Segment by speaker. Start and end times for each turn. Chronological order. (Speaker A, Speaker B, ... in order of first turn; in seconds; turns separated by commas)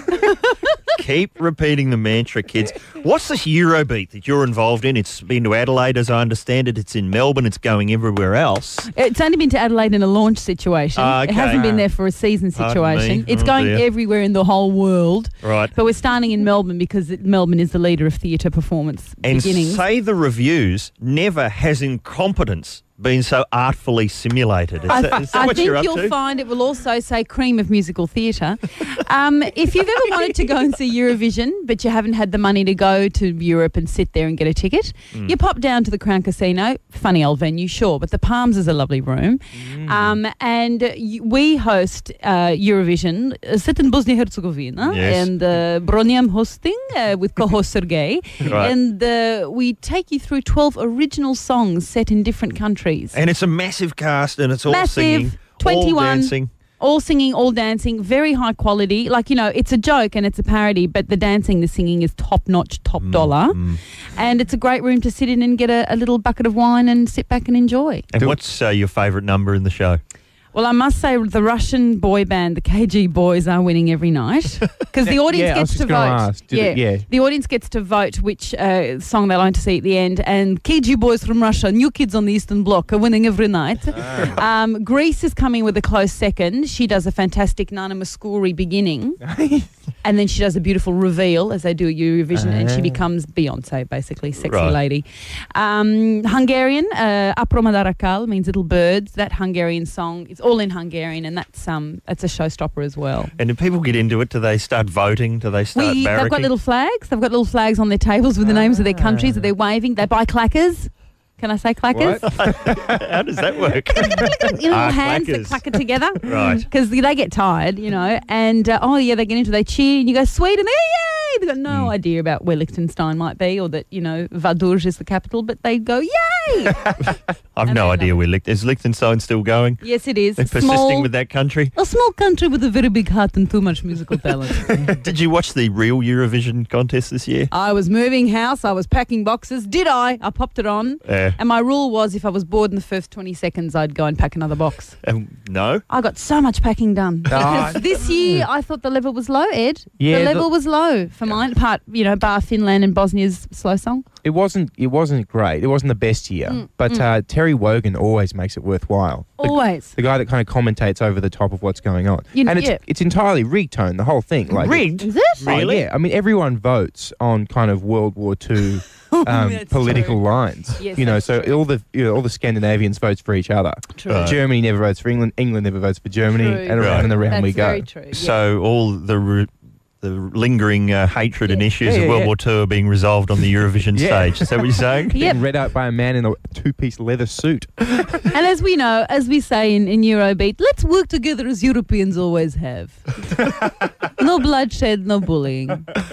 Speaker A: 0.9-8.9, Speaker B: 8.9-19.8, Speaker A: 10.9-11.8, Speaker A: 12.5-13.8, Speaker A: 15.4-15.7, Speaker A: 19.2-26.1, Speaker B: 24.9-53.1, Speaker C: 39.5-40.1, Speaker A: 44.8-45.3, Speaker A: 48.4-48.7, Speaker A: 53.1-56.5, Speaker B: 54.7-63.6, Speaker A: 63.0-63.8, Speaker B: 64.1-68.0, Speaker A: 68.1-70.0, Speaker B: 70.5-89.2, Speaker C: 75.0-77.0, Speaker C: 89.2-89.7, Speaker B: 90.0-103.3, Speaker C: 92.3-93.0, Speaker A: 94.4-94.8, Speaker A: 103.4-106.5, Speaker B: 105.7-112.2, Speaker C: 108.5-109.5, Speaker C: 111.9-113.0, Speaker A: 112.2-115.6, Speaker B: 114.0-127.0, Speaker A: 116.2-116.6, Speaker A: 127.0-129.8, Speaker B: 127.6-128.2, Speaker B: 129.8-131.1, Speaker A: 130.3-131.7, Speaker B: 131.7-134.8, Speaker A: 134.7-137.5, Speaker B: 137.5-145.0, Speaker A: 141.0-141.4, Speaker A: 145.0-145.8, Speaker B: 145.9-154.0, Speaker C: 147.3-148.4, Speaker C: 150.0-150.5, Speaker C: 154.2-177.9, Speaker B: 156.5-157.1, Speaker B: 159.4-159.9, Speaker B: 162.3-162.8, Speaker A: 164.5-165.9, Speaker B: 165.0-165.5, Speaker B: 169.1-171.5, Speaker B: 174.0-174.3, Speaker A: 174.1-174.4, Speaker B: 176.3-178.3, Speaker A: 176.8-177.1, Speaker A: 178.1-179.5, Speaker A: 180.0-185.2, Speaker C: 181.8-182.3, Speaker C: 183.9-188.2, Speaker B: 185.1-185.4, Speaker B: 188.3-193.0, Speaker B: 194.2-195.9